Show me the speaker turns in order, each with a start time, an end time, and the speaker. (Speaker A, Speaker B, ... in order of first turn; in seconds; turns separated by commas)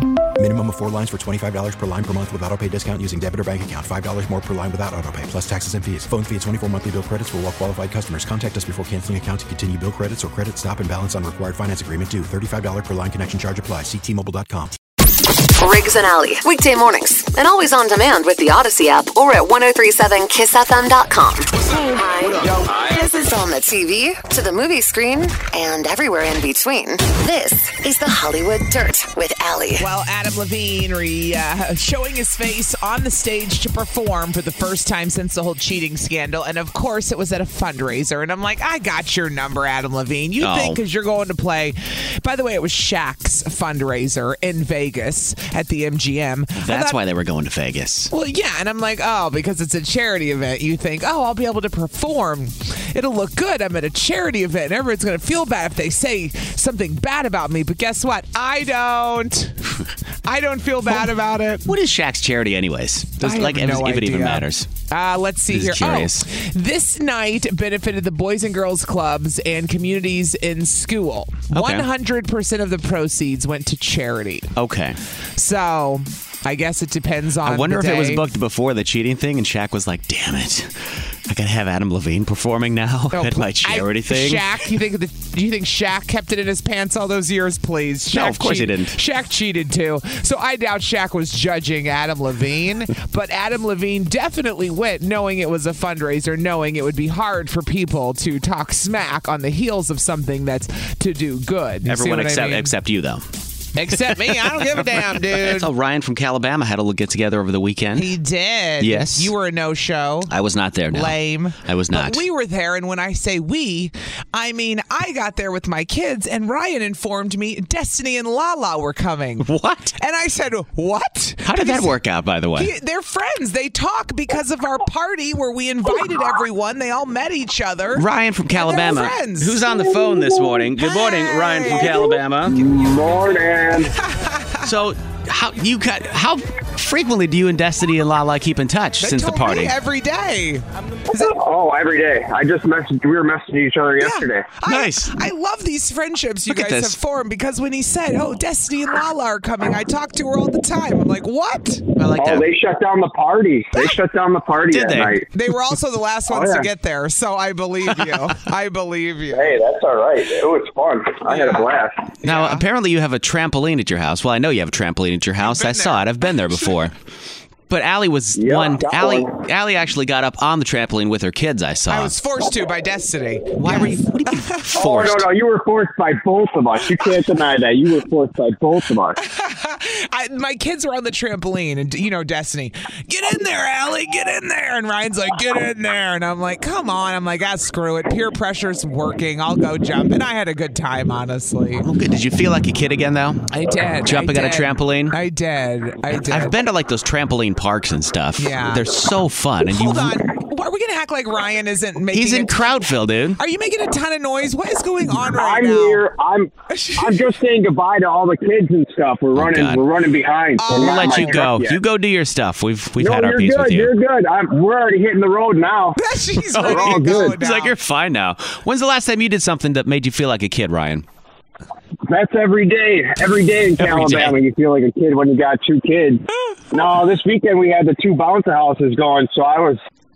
Speaker A: 0.4-14.8, Speaker B: 15.6-29.9, Speaker C: 29.8-47.0, Speaker D: 40.4-40.8, Speaker D: 46.6-48.1, Speaker C: 48.1-61.7, Speaker D: 61.7-64.7, Speaker C: 63.2-74.5, Speaker D: 65.5-66.2, Speaker D: 71.5-71.9, Speaker D: 74.6-75.0, Speaker C: 75.4-78.2, Speaker D: 77.4-84.4, Speaker C: 83.1-102.8, Speaker D: 88.1-89.0, Speaker D: 101.9-103.3, Speaker C: 103.8-105.7, Speaker D: 105.4-108.1, Speaker C: 108.0-110.3, Speaker D: 108.8-109.3, Speaker D: 110.3-112.2, Speaker C: 110.9-122.0, Speaker D: 119.5-120.0, Speaker D: 121.5-122.7, Speaker C: 122.6-129.6, Speaker D: 128.0-132.6, Speaker C: 130.7-134.7, Speaker E: 132.5-133.9, Speaker D: 134.6-139.7, Speaker C: 139.0-141.4, Speaker E: 141.1-144.5, Speaker C: 144.0-151.8, Speaker D: 144.7-145.1, Speaker D: 146.5-146.9, Speaker D: 152.0-152.5, Speaker E: 152.2-155.3, Speaker D: 154.7-155.2, Speaker C: 155.3-159.6, Speaker E: 156.3-156.6, Speaker D: 157.9-158.3, Speaker E: 159.3-162.0, Speaker D: 162.2-166.9, Speaker C: 162.2-162.7, Speaker C: 165.4-166.8, Speaker D: 167.7-172.1, Speaker E: 168.4-169.3, Speaker C: 171.9-174.8, Speaker D: 173.6-175.3, Speaker E: 174.8-179.2, Speaker C: 179.2-191.9, Speaker D: 191.8-195.2, Speaker C: 193.5-196.6, Speaker D: 196.1-200.2, Speaker C: 198.4-199.0, Speaker C: 199.6-202.8, Speaker D: 202.1-203.4, Speaker C: 203.4-206.1, Speaker E: 205.3-211.8, Speaker C: 206.8-207.2, Speaker D: 209.3-209.9, Speaker C: 210.6-211.5, Speaker D: 210.7-213.9, Speaker E: 213.0-216.0, Speaker C: 216.0-217.7, Speaker D: 216.5-221.0, Speaker E: 216.6-217.4, Speaker E: 222.1-229.8, Speaker D: 223.8-224.4